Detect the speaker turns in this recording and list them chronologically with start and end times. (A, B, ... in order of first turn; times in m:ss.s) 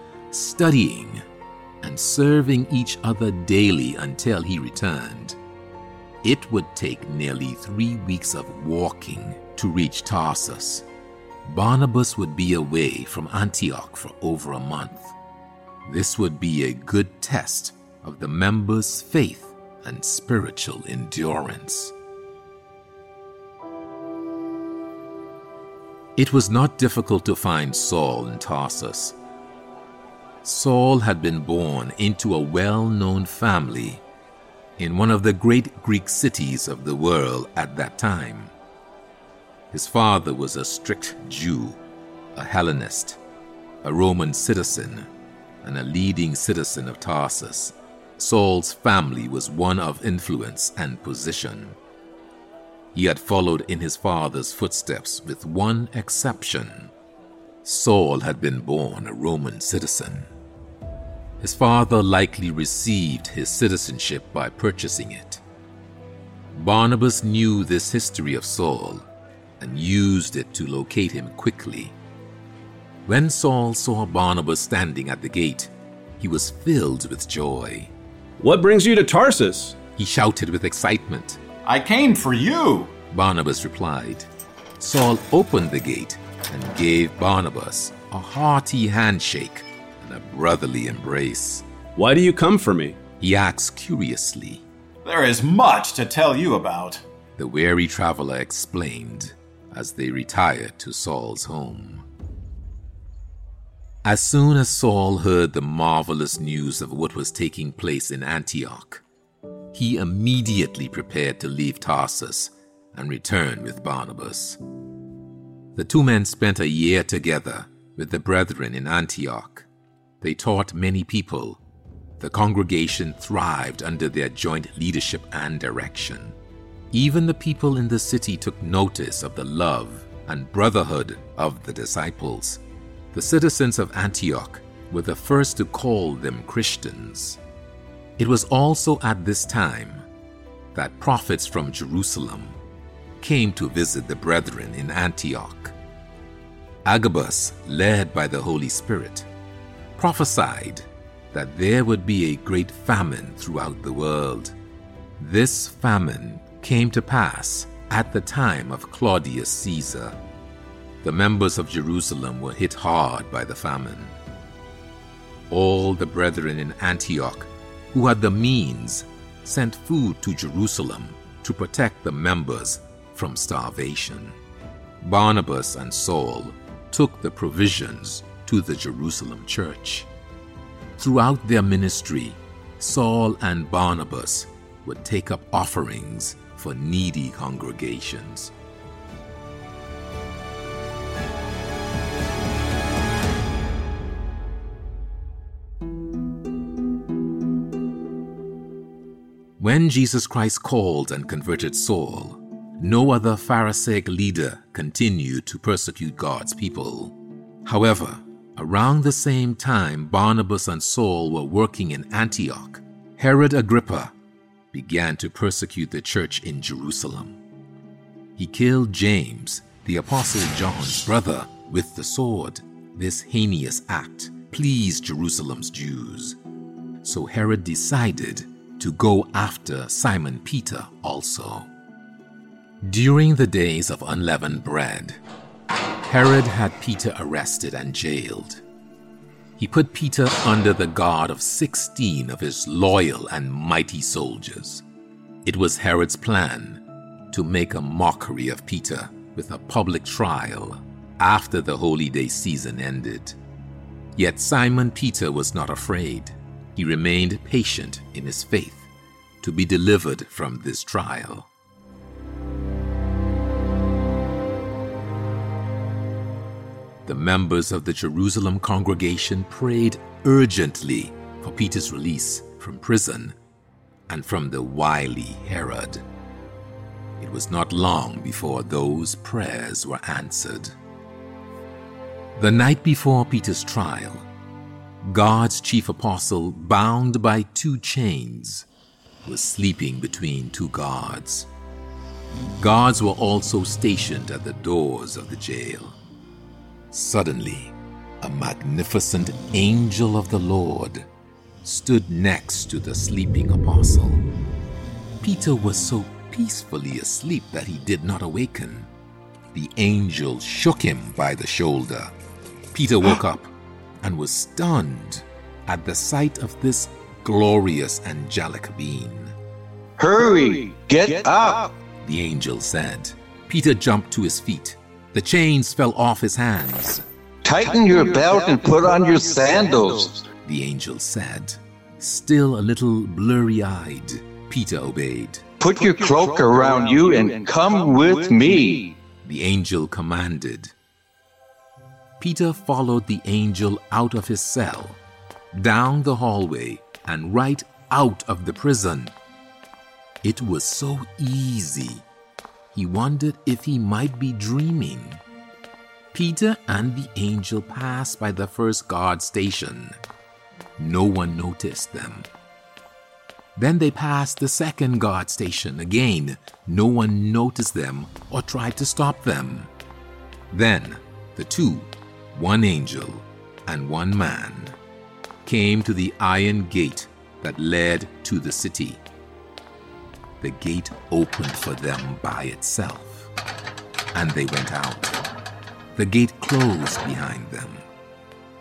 0:00.3-0:01.2 A
0:01.8-0:05.4 A
0:06.2-0:10.8 A
0:11.4-0:15.1 A
0:15.8-0:21.9 A
0:26.2-0:29.1 A
0:30.4-0:34.0 A
0:34.8-0:38.5 A
0:39.7-0:41.8 A
0:42.4-0:43.2 A
0:43.8-0:45.1 A
0:45.6-0:51.8 A
0:52.9-0:56.9 A
0:57.6-1:00.3 A
1:01.4-1:05.4 A
1:06.5-1:09.0 A
1:09.6-1:11.9 A
1:13.0-1:17.9 A
1:18.4-1:19.8 B
1:20.0-1:21.4 A
1:21.6-1:22.9 C
1:23.1-1:24.3 A
1:24.8-1:31.6 A
1:32.0-1:33.0 B
1:33.2-1:34.6 A
1:35.0-1:37.0 C
1:37.4-1:42.0 A
1:44.0-1:49.0 A
1:49.7-1:54.6 A
1:55.8-1:59.7 A
2:00.2-2:01.6 A
2:02.2-2:06.3 A
2:06.9-2:12.6 A
2:13.1-2:17.4 A
2:18.2-2:20.0 A
2:20.7-2:22.6 A
2:23.2-2:25.7 A
2:26.8-2:29.3 A
2:30.0-2:34.5 A
2:35.2-2:40.2 A
2:41.0-2:44.2 A
2:45.5-2:54.4 A
2:55.0-3:00.1 A
3:01.0-3:08.5 A
3:19.6-3:34.1 A
3:34.7-3:37.4 A
3:38.4-3:46.4 A
3:47.0-3:51.7 A
3:52.8-3:55.2 A
3:56.0-3:58.6 A
3:59.6-4:04.8 A
4:05.4-4:13.4 A
4:14.2-4:18.9 A
4:19.4-4:21.5 A
4:27.0-4:33.4 A
4:34.1-4:36.0 A
4:37.2-4:40.7 A
4:42.4-4:44.3 A
4:45.0-4:48.6 A
4:49.2-4:51.5 A
4:52.6-4:56.0 A
4:56.9-5:01.0 A
5:01.6-5:04.2 A
5:05.2-5:08.9 A
5:09.5-5:12.1 A
5:12.7-5:19.3 A
5:20.0-5:21.7 D
5:22.0-5:27.0 A
5:27.4-5:30.2 D
5:30.4-5:35.4 A
5:35.6-5:39.0 D
5:39.2-5:40.7 A
5:42.2-5:45.0 A
5:45.5-5:49.1 A
5:50.2-5:52.0 A
5:52.7-5:55.2 A
5:56.1-6:00.0 A
6:00.8-6:02.3 A
6:03.6-6:09.7 A
6:10.5-6:14.7 A
6:15.4-6:19.0 A
6:20.4-6:23.3 A
6:24.1-6:25.2 A
6:26.0-6:27.8 A